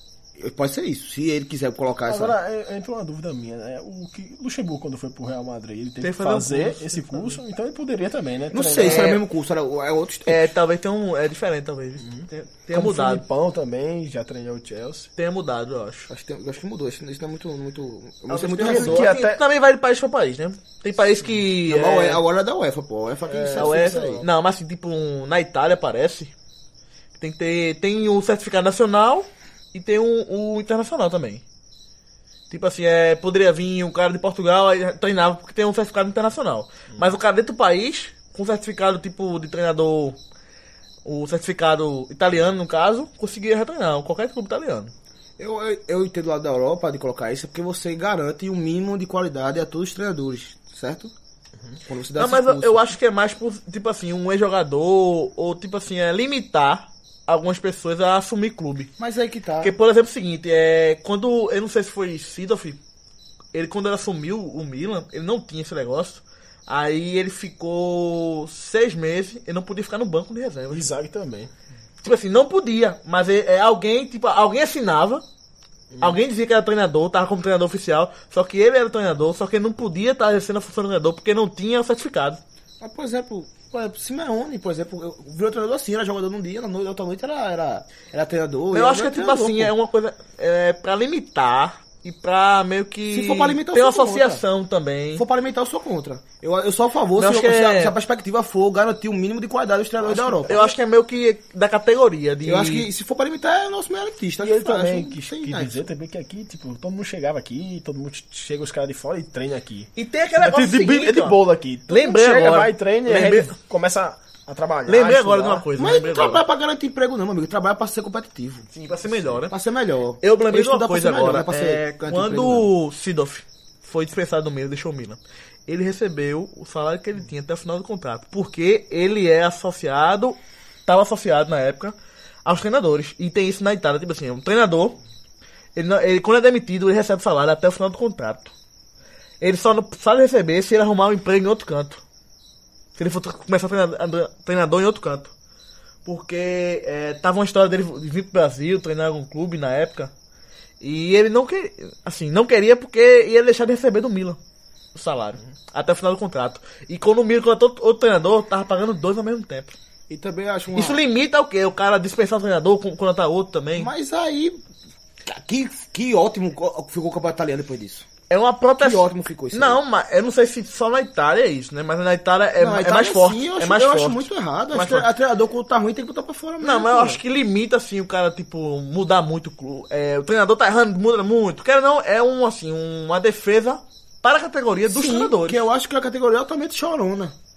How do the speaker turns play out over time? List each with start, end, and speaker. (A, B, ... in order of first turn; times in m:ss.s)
0:00.4-0:02.4 A
0:02.1-0:09.1 B
0:06.0-0:07.4 C
0:08.5-0:10.5 A
0:08.8-0:09.2 C
0:10.3-0:13.2 C
0:12.0-0:15.1 B
0:15.2-0:16.1 C
0:16.1-0:19.1 A
0:18.3-0:22.2 C
0:18.6-0:19.4 B
0:21.6-0:24.3 A
0:23.3-0:24.3 B
0:23.5-0:26.3 C
0:27.2-0:31.4 C
0:32.5-0:40.2 C
0:41.0-0:44.9 C
0:45.4-0:51.1 A
0:51.9-0:53.0 A
0:52.2-0:58.9 C
0:59.0-0:59.8 A
0:59.6-1:02.8 C
1:03.5-1:10.9 C
1:10.7-1:11.5 B
1:12.0-1:15.2 C
1:15.9-1:16.2 B
1:16.0-1:22.4 C
1:22.8-1:29.7 A
1:28.7-1:35.2 C
1:33.1-1:34.4 A
1:35.2-1:40.7 A
1:37.2-1:38.0 C
1:40.1-1:42.9 C
1:42.4-1:45.8 A
1:44.4-1:55.7 B
1:50.0-1:53.5 C
1:54.9-1:56.4 C
1:55.8-1:58.7 A
1:58.7-1:59.5 C
1:59.3-2:02.7 A
2:00.2-2:15.0 C
2:15.8-2:18.5 C
2:19.4-2:22.0 C
2:23.0-2:25.3 C
2:26.0-2:30.1 C
2:30.8-2:34.4 C
2:34.9-2:39.8 C
2:40.1-2:41.0 A
2:40.7-2:43.9 C
2:43.8-2:44.6 A
2:45.2-2:48.1 A
2:48.3-2:55.1 C
2:48.8-2:49.8 A
2:52.6-2:57.2 A
2:56.6-3:05.7 C
3:04.8-3:07.4 A